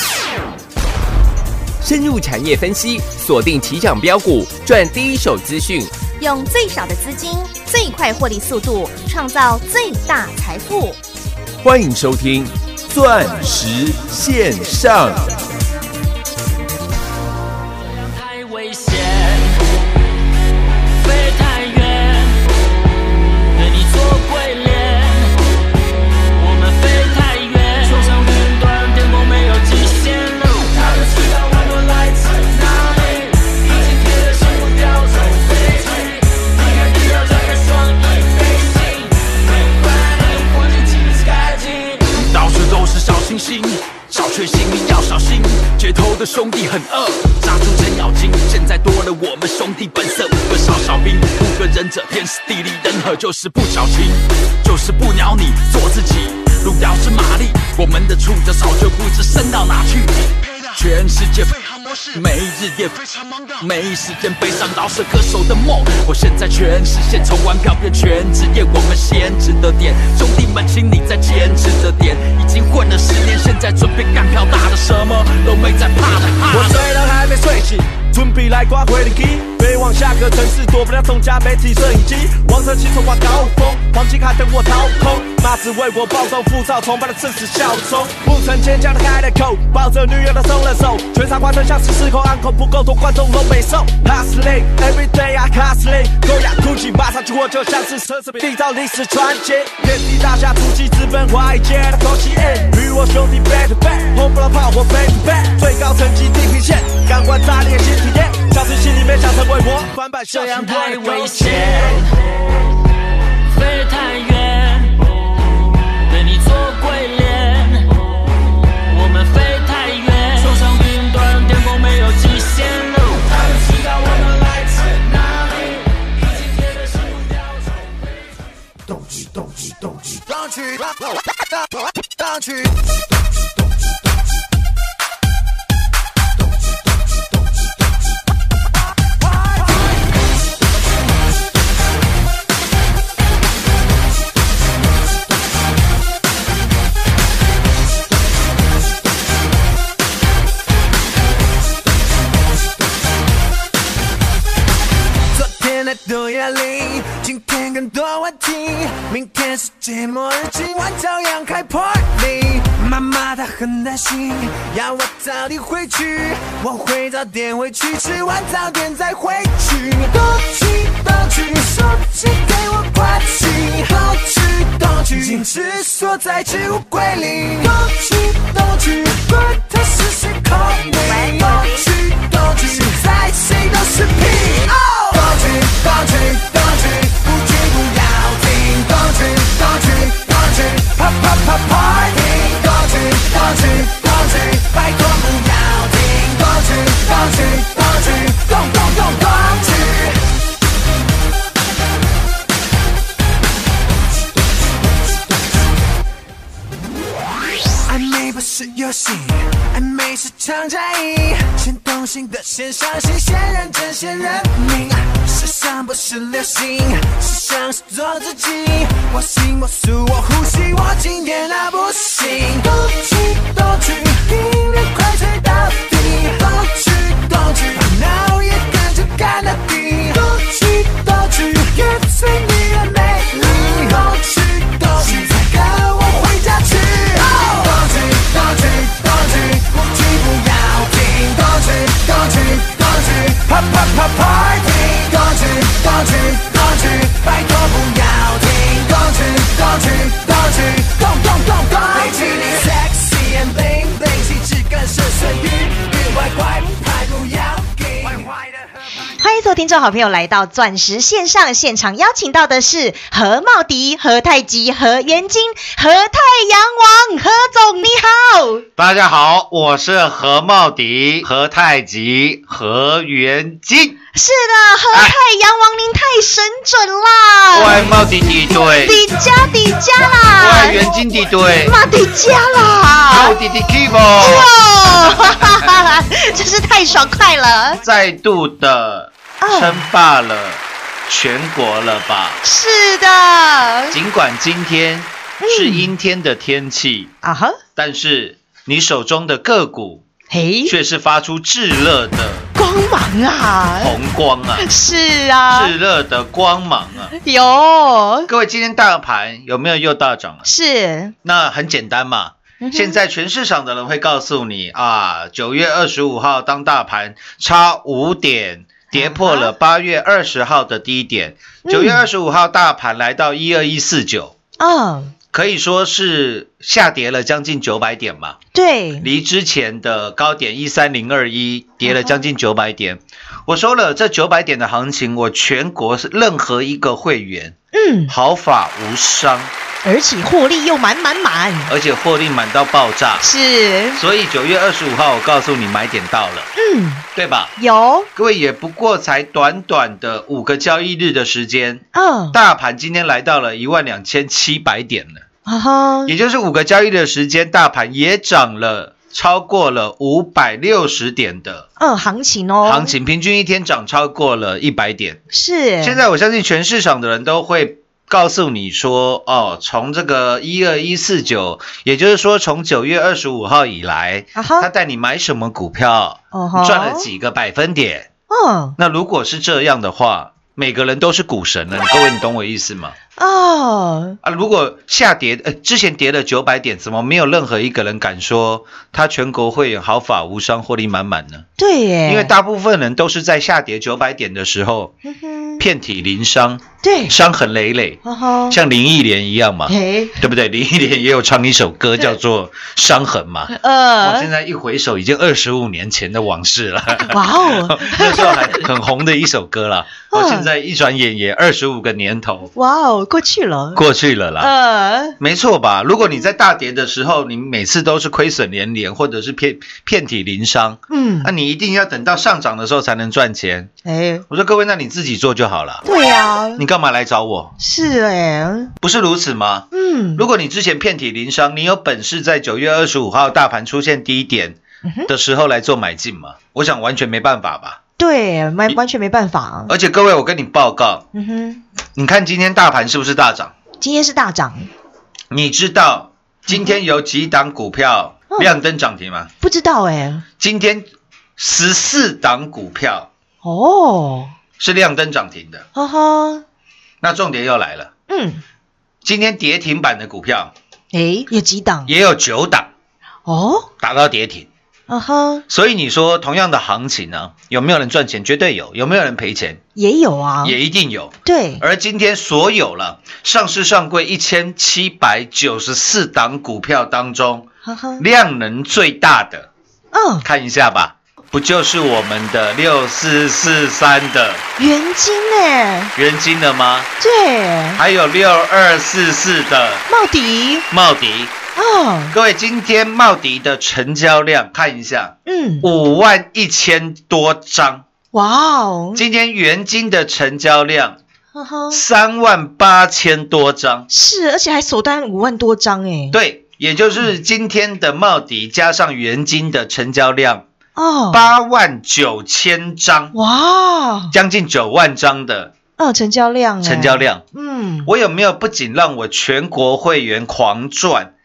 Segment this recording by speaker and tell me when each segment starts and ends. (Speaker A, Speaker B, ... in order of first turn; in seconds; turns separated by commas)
Speaker A: 1.8-6.0, Speaker B: 6.1-11.0, Speaker A: 11.6-15.3, Speaker C: 17.9-19.8, Speaker C: 21.0-22.4, Speaker C: 23.5-25.4, Speaker C: 26.4-31.5, Speaker C: 34.0-35.2, Speaker C: 36.9-38.1, Speaker C: 41.0-41.8, Speaker D: 42.0-76.9, Speaker E: 76.5-112.1, Speaker C: 110.3-112.3, Speaker C: 113.5-115.0, Speaker C: 116.0-118.0, Speaker C: 118.9-123.5, Speaker F: 128.9-132.7, Speaker F: 155.3-200.2, Speaker B: 181.1-181.8, Speaker F: 207.9-258.7, Speaker G: 259.2-268.6, Speaker H: 268.8-274.0, Speaker G: 274.1-278.0, Speaker H: 277.5-279.0, Speaker G: 278.5-280.9, Speaker H: 280.3-281.8, Speaker G: 281.6-283.4, Speaker H: 283.1-284.5, Speaker G: 284.2-287.8, Speaker H: 285.0-285.7, Speaker H: 287.8-292.4, Speaker G: 289.4-289.9, Speaker G: 292.4-294.0, Speaker H: 293.9-297.1, Speaker G: 295.4-295.9, Speaker G: 297.2-297.6, Speaker H: 297.8-300.1, Speaker G: 300.3-300.7, Speaker H: 300.7-302.5, Speaker G: 302.6-303.9, Speaker H: 303.8-304.7, Speaker G: 304.6-305.7, Speaker H: 305.5-307.1, Speaker G: 307.2-308.3, Speaker H: 308.3-310.5, Speaker G: 310.4-311.1, Speaker H: 311.2-324.3, Speaker G: 312.6-313.0, Speaker G: 318.9-319.5, Speaker G: 321.6-322.0, Speaker G: 324.6-325.1, Speaker H: 325.3-328.4, Speaker G: 328.5-329.1, Speaker H: 329.0-337.6, Speaker G: 331.8-332.2, Speaker G: 337.7-338.1, Speaker H: 338.1-339.5, Speaker G: 339.8-341.7, Speaker H: 341.7-343.3, Speaker G: 343.2-344.0, Speaker H: 343.9-346.5, Speaker G: 346.6-347.1, Speaker H: 347.1-347.5, Speaker G: 347.6-348.1, Speaker H: 348.1-355.2, Speaker G: 351.9-352.4, Speaker G: 355.5-356.1, Speaker H: 356.1-361.7, Speaker G: 361.8-362.9, Speaker H: 362.6-365.2, Speaker G: 365.3-366.0, Speaker H: 365.8-378.1, Speaker G: 374.4-374.7, Speaker G: 376.3-377.1, Speaker G: 378.3-378.8, Speaker H: 378.8-382.9, Speaker G: 383.2-384.2, Speaker H: 384.2-391.5, Speaker G: 391.6-392.4, Speaker H: 392.1-394.9, Speaker G: 395.0-395.6, Speaker H: 395.6-412.5, Speaker G: 396.8-397.1, Speaker G: 398.0-398.6, Speaker G: 399.7-400.2, Speaker G: 403.5-404.3, Speaker G: 407.1-408.7, Speaker G: 410.1-410.5, Speaker G: 412.6-413.8, Speaker H: 413.7-414.5, Speaker G: 414.4-415.2, Speaker H: 415.2-423.7, Speaker G: 420.9-421.3, Speaker G: 423.9-424.2, Speaker H: 424.3-425.8, Speaker G: 425.9-426.6, Speaker H: 426.6-427.6, Speaker G: 427.6-428.7, Speaker H: 428.8-437.8, Speaker G: 429.7-430.2, Speaker G: 434.9-435.1, Speaker G: 438.0-439.7, Speaker H: 439.7-441.1, Speaker G: 441.1-441.6, Speaker H: 442.0-443.5, Speaker G: 443.8-444.7, Speaker H: 445.3-449.3, Speaker G: 446.5-446.8, Speaker G: 448.3-448.6, Speaker G: 449.4-450.2, Speaker H: 450.4-450.9, Speaker H: 451.4-453.1, Speaker G: 453.4-454.3, Speaker H: 454.6-455.7, Speaker G: 455.8-456.4, Speaker H: 457.0-457.9, Speaker G: 458.1-458.4, Speaker H: 459.0-460.5, Speaker G: 460.9-461.9, Speaker H: 461.9-462.7, Speaker G: 463.3-463.7, Speaker H: 463.8-464.5, Speaker G: 464.9-465.4, Speaker H: 465.5-469.6, Speaker G: 469.8-470.6, Speaker H: 470.4-479.5, Speaker G: 471.2-471.6, Speaker G: 477.6-478.0, Speaker G: 479.9-480.3, Speaker H: 480.2-484.4, Speaker G: 484.6-485.9, Speaker H: 485.9-486.9, Speaker G: 487.0-487.8, Speaker H: 487.8-489.9, Speaker G: 489.9-490.7, Speaker H: 490.7-491.4, Speaker G: 491.6-492.2, Speaker H: 492.1-497.9, Speaker G: 495.3-495.7, Speaker G: 498.1-499.0, Speaker H: 498.9-501.0, Speaker G: 501.3-501.8, Speaker H: 501.7-503.9, Speaker G: 503.9-506.2, Speaker H: 506.1-510.5, Speaker G: 510.8-511.2, Speaker H: 511.1-513.1, Speaker G: 513.1-514.1, Speaker H: 514.1-515.5, Speaker G: 515.8-517.9, Speaker H: 516.6-517.2, Speaker H: 517.9-521.1